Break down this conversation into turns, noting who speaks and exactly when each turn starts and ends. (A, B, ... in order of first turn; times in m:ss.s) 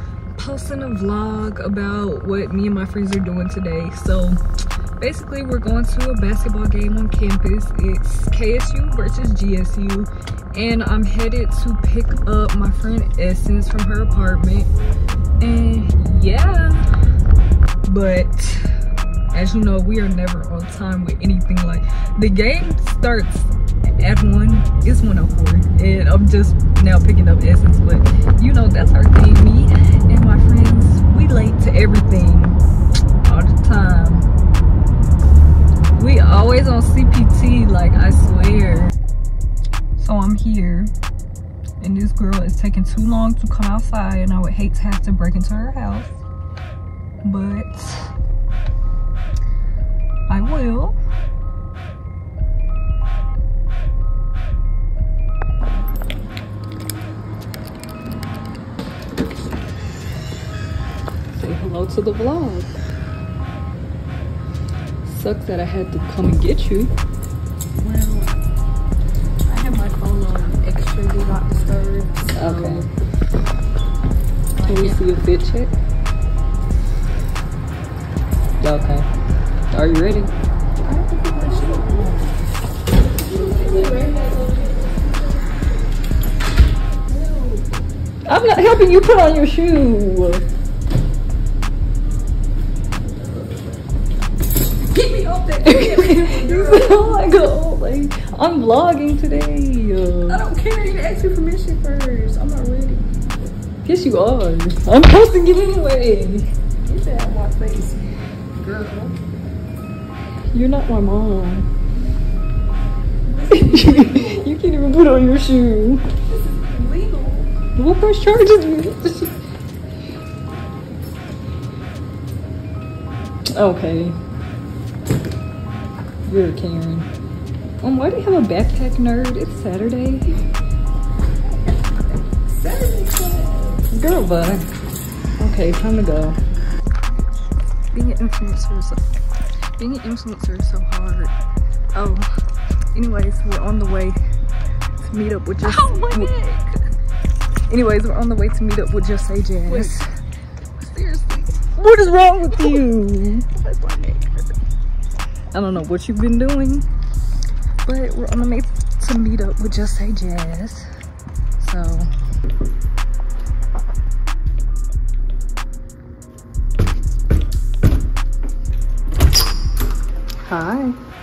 0:00.4-0:04.4 A
0:05.0-0:14.7 A
0:15.4-0:16.8 A
0:17.8-0:18.7 A
0:19.3-0:32.6 A
0:33.2-0:34.2 A
0:35.9-0:38.9 A
0:40.0-0:40.9 A
0:41.8-0:46.2 A
0:47.2-0:48.1 A
0:50.3-0:51.0 A
1:01.3-1:02.7 A
1:05.0-1:06.9 A
1:07.8-1:08.3 B
1:09.4-1:12.9 B
1:12.3-1:12.9 A
1:14.6-1:15.0 B
1:14.6-1:15.8 A
1:18.6-1:19.1 A
1:19.7-1:20.3 A
1:20.8-1:22.4 B
1:23.2-1:25.8 B
1:27.1-1:27.7 B
1:28.2-1:30.4 A
1:33.0-1:33.8 B
1:34.9-1:37.2 B
1:35.6-1:40.4 A
1:40.3-1:43.1 B
1:43.8-1:46.5 A
1:46.8-1:48.0 B
1:48.6-1:49.1 B
1:48.7-1:49.0 A
1:50.5-1:51.7 A
1:53.2-1:54.5 B
1:53.5-1:56.1 A
1:56.3-1:57.5 B
1:57.7-1:59.3 A
2:03.5-2:04.2 A
2:06.2-2:07.1 A
2:07.8-2:10.4 A
2:12.1-2:13.0 A
2:12.6-2:13.7 B
2:13.7-2:14.7 A
2:15.4-2:16.4 A
2:17.9-2:19.0 A
2:19.8-2:21.3 A
2:21.9-2:22.3 A
2:22.9-2:24.2 A
2:25.0-2:26.4 A
2:25.6-2:26.7 B
2:27.7-2:30.1 A
2:29.7-2:30.0 B
2:30.8-2:31.6 B
2:31.8-2:33.4 A
2:32.5-2:32.8 B
2:33.5-2:34.5 B
2:35.5-2:36.8 A
2:37.8-2:40.9 A
2:41.6-2:42.1 A
2:50.4-2:51.0 A